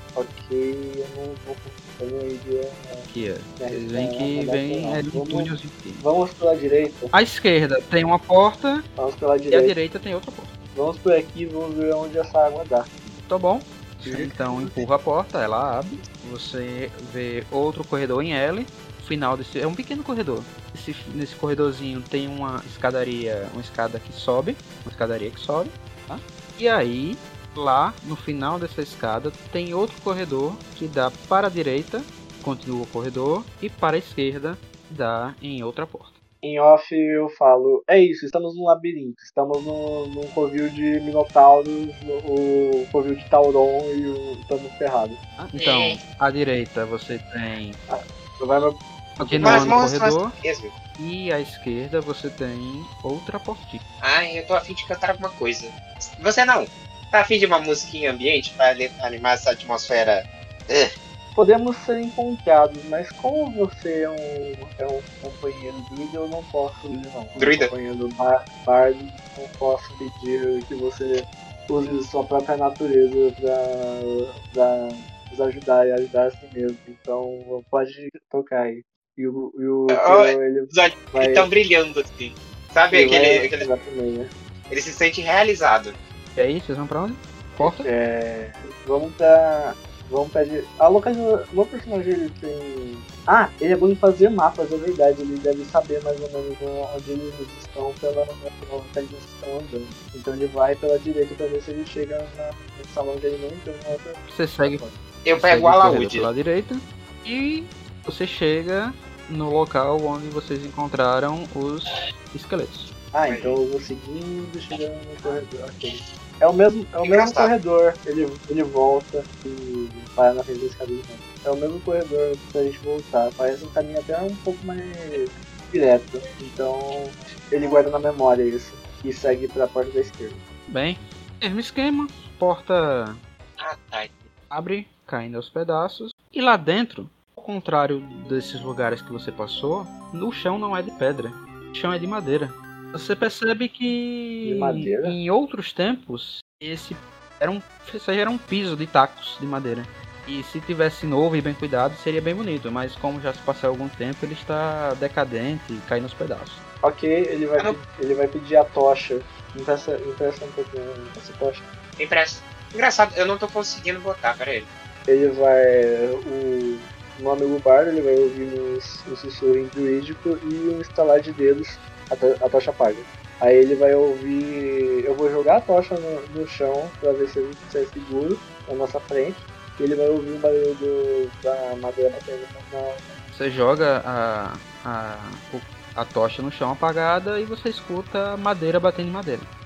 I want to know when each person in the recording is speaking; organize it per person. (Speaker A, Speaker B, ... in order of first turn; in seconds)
Speaker A: 0.1-7.1, 9.0-9.7, 10.7-12.9, 14.0-14.8, 36.4-45.2, 47.9-49.9, 61.3-81.5, 82.9-84.3, 87.6-104.2, 113.1-130.4, 144.4-145.2, 156.8-161.7, 165.1-183.2
Speaker B: 3.1-6.0, 7.1-8.8, 9.5-10.5, 13.1-36.1, 45.4-47.8, 49.2-50.3, 51.0-53.8, 86.3-87.9, 104.3-104.8, 105.3-112.9, 130.7-133.2, 134.5-156.6, 183.3-189.5
Speaker C: 45.5-46.0, 49.4-50.7, 54.0-60.9, 67.3-67.7, 79.9-83.7, 84.7-86.0, 105.2-106.3, 113.2-113.6, 117.0-117.5, 133.6-134.3, 162.0-164.7